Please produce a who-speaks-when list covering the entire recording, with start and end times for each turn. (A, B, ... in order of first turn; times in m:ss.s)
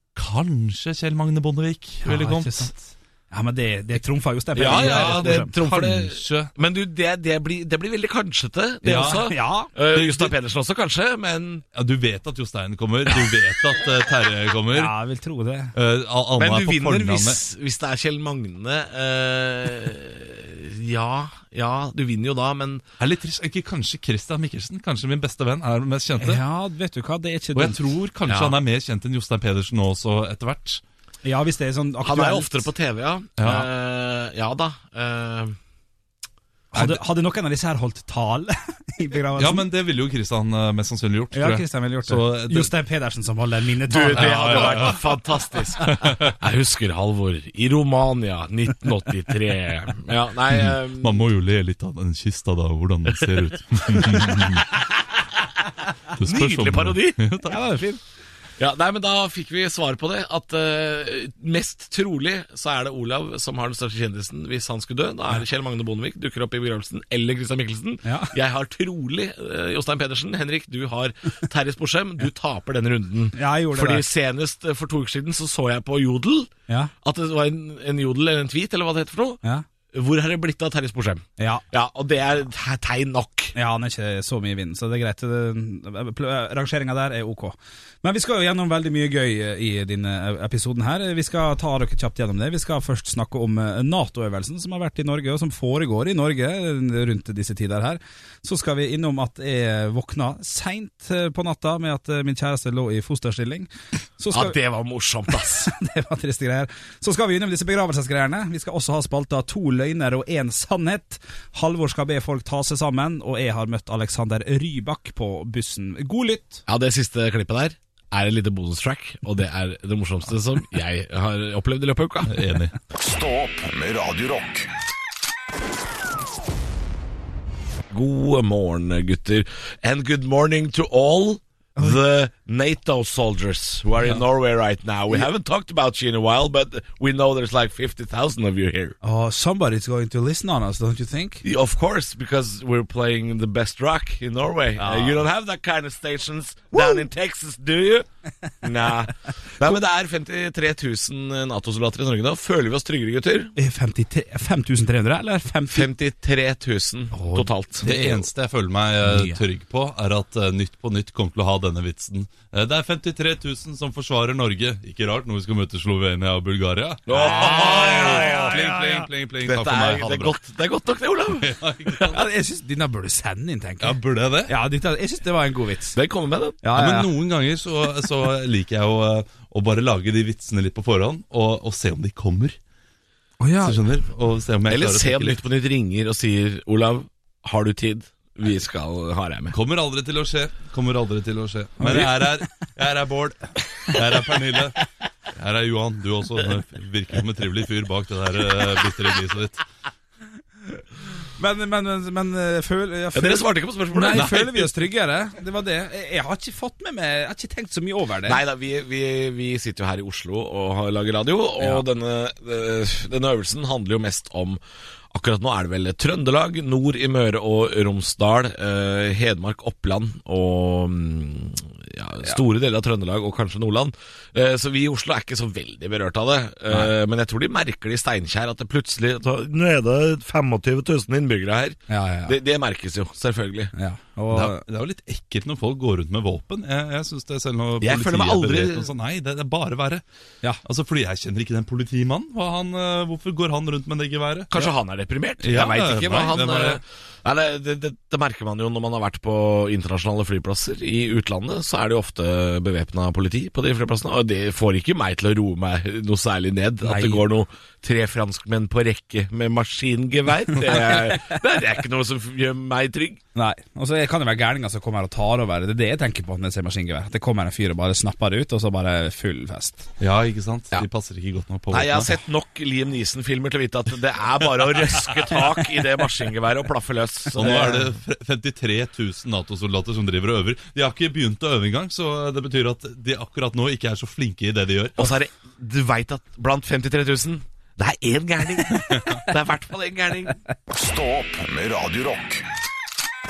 0:00.1-0:02.7 A
0:02.0-0:05.5 B
0:04.6-0:11.6 C
0:04.6-0:06.5 A
0:08.8-0:09.3 A
0:08.9-0:09.7 B
0:09.9-0:10.3 A
0:11.7-0:14.9 A
0:14.7-0:15.7 B
0:15.7-0:17.4 A
0:16.4-0:22.8 C
0:23.0-0:26.4 A
0:26.2-0:27.8 B
0:27.5-0:30.8 A
0:28.3-0:28.6 C
0:31.2-0:32.7 B
0:32.0-0:35.6 C
0:33.4-0:33.6 A
0:36.7-0:39.6 B
0:36.7-0:37.0 A
0:39.4-0:42.7 A
0:41.3-0:45.0 B
0:43.9-0:51.2 C
0:44.1-0:45.1 A
0:45.8-0:46.3 A
0:50.5-0:54.7 A
0:53.9-0:54.4 C
0:56.1-0:57.6 A
0:56.2-0:57.2 C
0:57.4-0:58.0 B
0:58.6-1:16.5 C
1:08.0-1:08.3 B
1:13.3-1:14.0 B
1:17.0-1:19.4 C
1:19.9-1:23.5 C
1:21.4-1:21.6 B
1:23.5-1:44.6 B
1:44.3-1:45.7 C
1:45.3-1:56.6 B
1:56.7-2:02.4 C
2:02.3-2:02.7 A
2:02.9-2:04.7 D
2:07.9-2:18.9 C
2:19.0-2:21.4 B
2:21.4-2:28.1 C
2:24.8-2:25.2 B
2:26.7-2:27.1 B
2:28.6-2:33.5 C
2:33.6-2:35.9 B
2:35.7-2:37.9 C
2:37.1-2:38.2 B
2:37.8-2:50.4 A
2:39.0-2:39.4 B
2:47.1-2:48.5 C
2:47.1-2:49.1 B
2:49.4-2:51.5 C
2:51.3-2:52.2 A
2:52.1-2:56.0 B
2:53.8-2:54.5 A
2:55.9-2:56.6 C
2:56.6-2:57.1 B
2:56.7-3:02.6 A
3:03.4-3:03.8 B
3:03.6-3:05.4 A
3:04.7-3:09.5 C
3:09.5-3:19.6 A
3:11.8-3:12.3 B
3:21.4-3:28.4 B
3:23.1-3:24.6 C
3:24.1-3:24.7 A
3:28.2-3:34.6 C
3:31.6-3:31.8 B
3:35.1-3:53.7 C
3:51.9-3:52.4 B
3:53.7-3:54.6 B
3:54.3-4:00.0 A
3:57.8-3:58.9 C
4:00.6-4:04.7 A
4:04.5-4:23.2 C
4:05.4-4:06.8 A
4:16.8-4:17.2 B
4:23.3-4:29.8 B
4:30.0-4:32.1 A
4:31.7-4:37.9 C
4:37.3-4:45.1 A
4:37.4-4:37.8 B
4:45.0-4:50.4 C
4:48.9-4:49.2 A
4:50.7-4:52.5 D